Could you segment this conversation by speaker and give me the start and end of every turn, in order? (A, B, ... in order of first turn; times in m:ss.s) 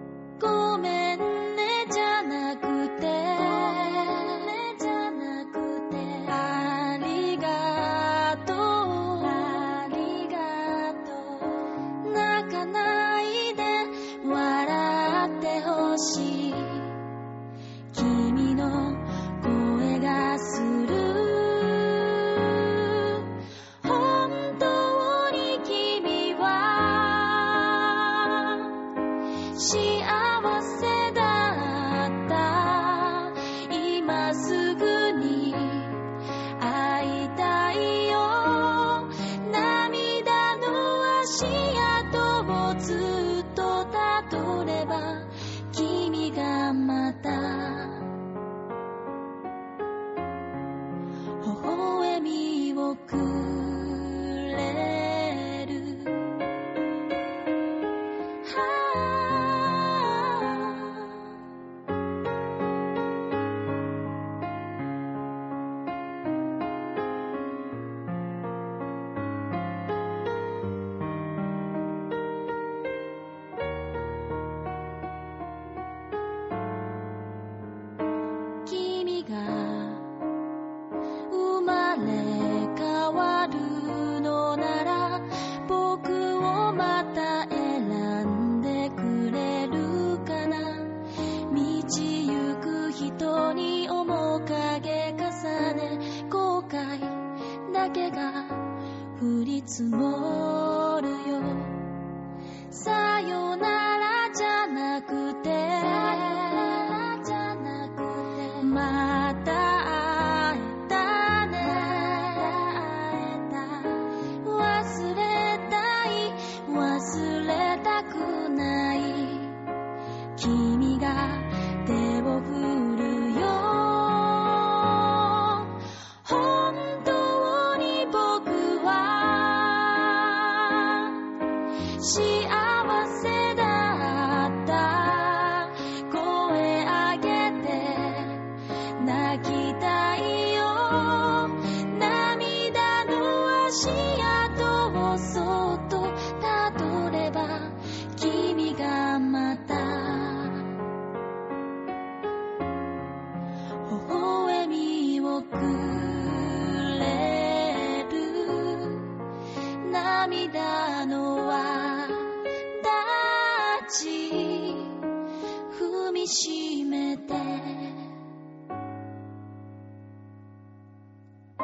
0:00.4-0:17.0 A
0:17.9-0:23.3 A
0:23.8-0:28.7 A
0:29.5-0:36.0 A
0:36.6-0:48.1 A
0:51.4-0:56.4 A
0:58.4-1:01.3 A
1:18.6-1:20.0 A
1:21.3-1:31.0 A
1:31.5-1:41.8 A
1:42.7-1:59.6 A
2:00.4-2:05.7 A
2:06.2-2:11.2 A
2:12.0-2:30.7 A
2:33.8-2:39.2 A
2:39.8-2:45.0 A
2:45.7-2:48.1 A